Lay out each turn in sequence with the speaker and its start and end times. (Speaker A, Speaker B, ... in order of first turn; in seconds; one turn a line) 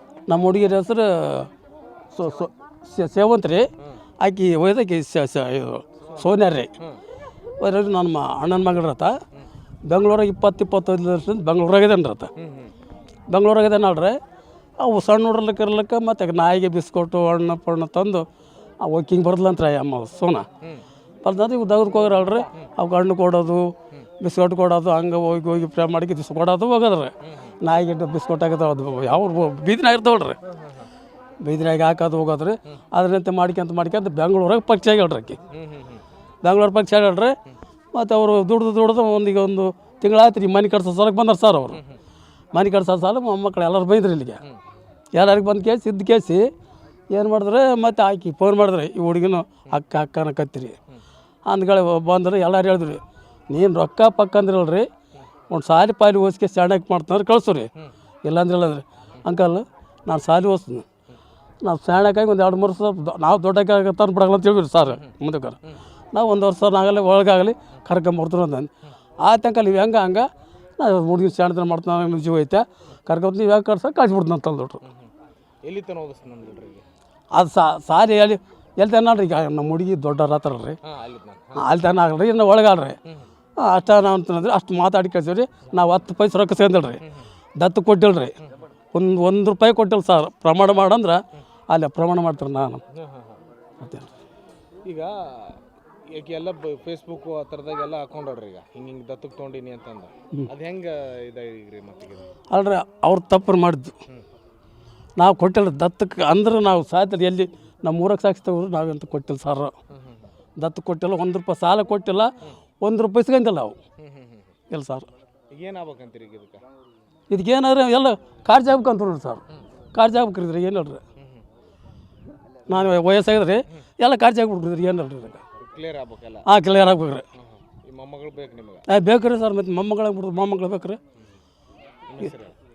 Speaker A: 0.3-1.5
Speaker A: 2.1-3.7
Speaker A: 4.2-6.7
Speaker B: 6.0-7.0
Speaker A: 7.6-9.1
Speaker A: 9.8-12.3
Speaker B: 12.3-12.7
Speaker A: 13.3-14.2
Speaker A: 14.8-18.2
Speaker A: 18.8-20.5
Speaker A: 21.2-30.4
Speaker B: 27.2-27.6
Speaker A: 31.4-35.4
Speaker B: 35.5-36.0
Speaker A: 36.4-37.3
Speaker A: 37.9-41.8
Speaker B: 41.7-42.0
Speaker A: 42.5-44.4
Speaker A: 45.1-46.5
Speaker A: 47.1-50.8
Speaker A: 51.5-54.9
Speaker A: 55.5-57.7
Speaker A: 58.2-60.8
Speaker A: 61.6-65.6
Speaker A: 66.1-70.3
Speaker A: 70.8-74.8
Speaker B: 74.8-75.1
Speaker B: 75.6-76.8
Speaker A: 77.3-80.8
Speaker B: 80.8-81.7
Speaker A: 81.6-83.0
Speaker A: 83.6-87.0
Speaker A: 87.6-88.3
Speaker A: 88.9-92.8
Speaker B: 92.9-93.4
Speaker A: 93.8-94.1
Speaker B: 94.8-95.6
Speaker B: 96.1-102.3
Speaker A: 102.5-103.9
Speaker A: 105.2-109.7
Speaker B: 109.9-110.3
Speaker A: 110.6-113.8
Speaker B: 114.0-114.5
Speaker A: 114.7-115.1
Speaker B: 115.5-116.6
Speaker A: 117.3-119.4
Speaker A: 119.9-121.0
Speaker B: 121.2-121.4
Speaker A: 122.7-125.4
Speaker B: 125.5-126.5
Speaker A: 126.5-127.2
Speaker B: 127.3-128.8
Speaker A: 128.9-131.0
Speaker B: 132.1-132.6